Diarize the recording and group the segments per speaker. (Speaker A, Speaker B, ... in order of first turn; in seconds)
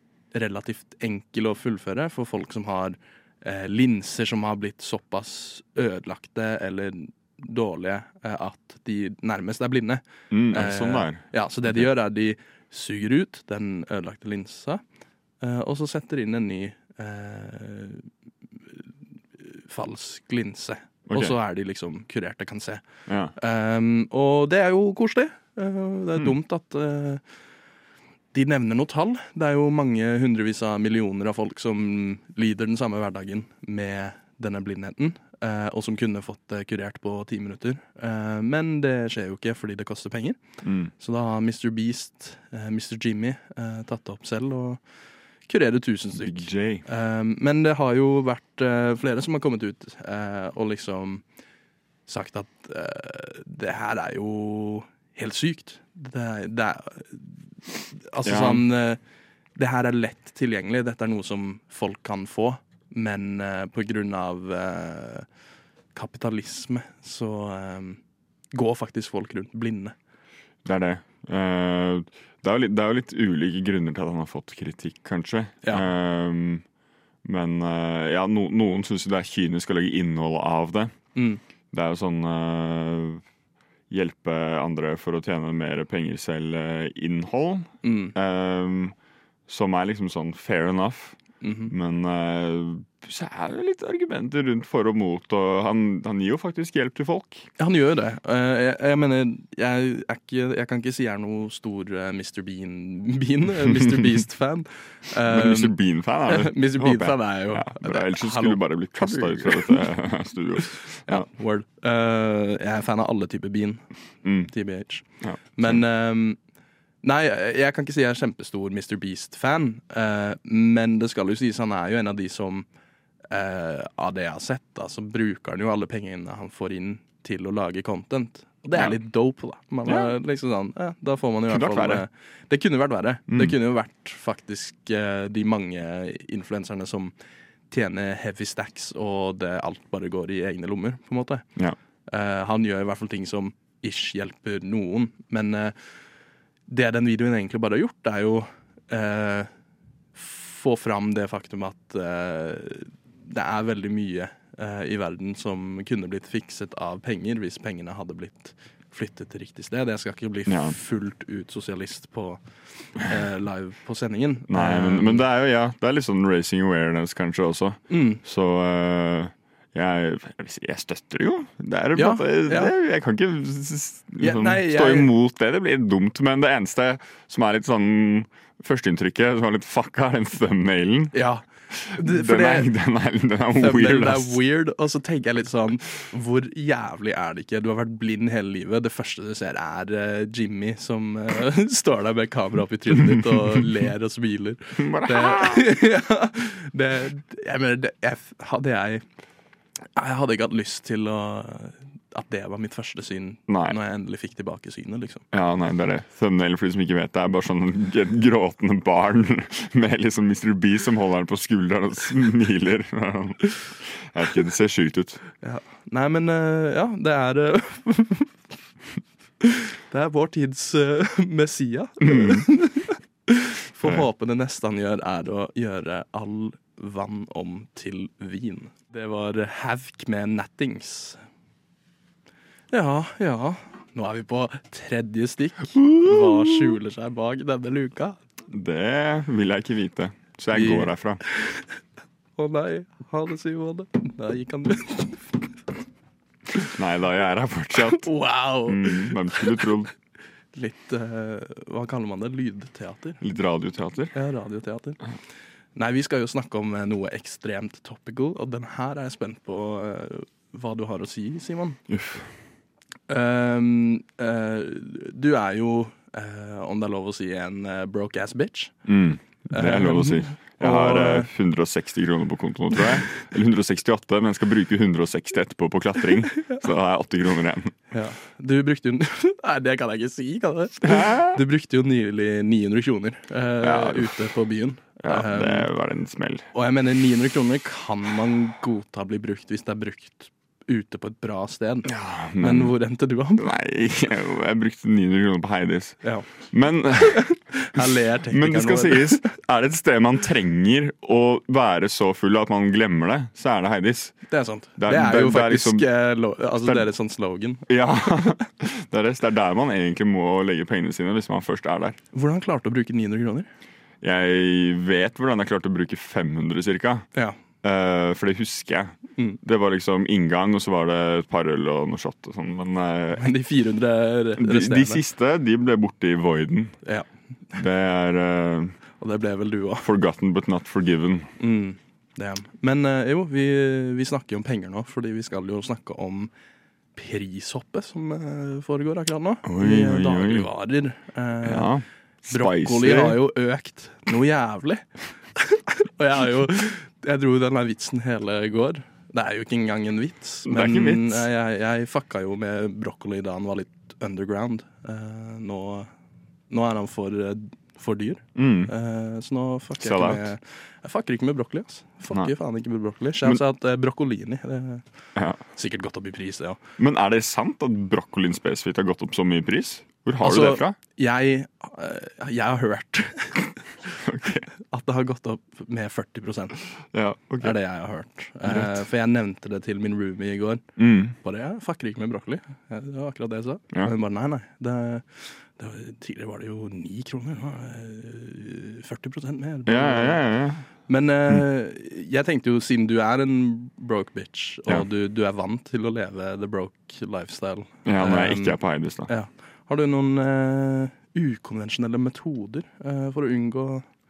Speaker A: 0.3-14.8, 15.4-18.1, 19.4-22.8, 23.4-27.2, 28.3-40.4, 41.0-44.8, 45.5-51.2, 52.1-59.0, 59.5-65.3, 65.9-68.0, 68.5-70.0, 81.2-81.4, 87.8-88.1, 91.4-91.7, 97.6-109.9, 111.1-113.9, 114.5-116.4, 117.0-122.7, 123.3-137.1, 137.7-141.5, 142.1-145.9, 146.7-149.5, 150.2-165.2, 167.9-168.2, 171.9-172.7, 174.2-175.1, 181.1-182.7, 183.6-199.1, 200.0-205.3, 215.4-218.3, 219.4-231.2, 232.7-238.2, 240.5-241.7, 242.4-245.4, 247.9-249.5, 250.5-253.2, 254.1-255.0, 255.8-261.8, 263.1-268.8, 269.5-271.3, 277.9-285.7, 286.5-293.5, 297.0-299.3, 304.3-308.3, 312.1-313.5, 323.2-325.0, 329.0-329.9, 331.4-336.3, 337.0-341.7, 342.3-355.9, 356.5-364.9, 365.6-366.6, 370.2-373.5, 374.7-376.6, 377.4-390.2, 390.8-403.9
Speaker B: 10.3-11.9, 21.1-21.4, 23.1-23.3, 40.6-40.9, 46.2-46.8, 58.2-58.7, 70.7-76.6, 77.2-81.0, 81.7-83.2, 83.9-89.0, 89.5-97.5, 105.2-111.3, 114.2-114.5, 115.2-115.8, 129.9-130.1, 131.5-132.0, 133.3-133.6, 160.5-160.8, 164.5-181.2, 181.7-184.4, 194.8-195.7, 203.5-203.8, 205.3-215.2, 222.0-222.5, 235.8-236.7, 238.5-241.2, 246.7-248.1, 248.7-249.9, 253.2-254.2, 261.9-262.3, 268.9-277.8, 280.8-281.4, 283.6-284.3, 285.0-286.5, 291.9-292.8, 293.4-305.9, 306.6-306.9, 307.7-312.0, 314.0-317.1, 317.6-323.3, 324.4-326.8, 327.6-328.8, 329.8-331.3, 339.4-340.5, 341.4-343.2, 350.5-351.3, 358.4-358.7, 359.8-360.3, 365.2-365.4, 366.8-370.8, 374.0-374.5, 376.9-377.6, 378.4-378.8, 380.8-381.2, 389.7-390.7, 397.9-399.1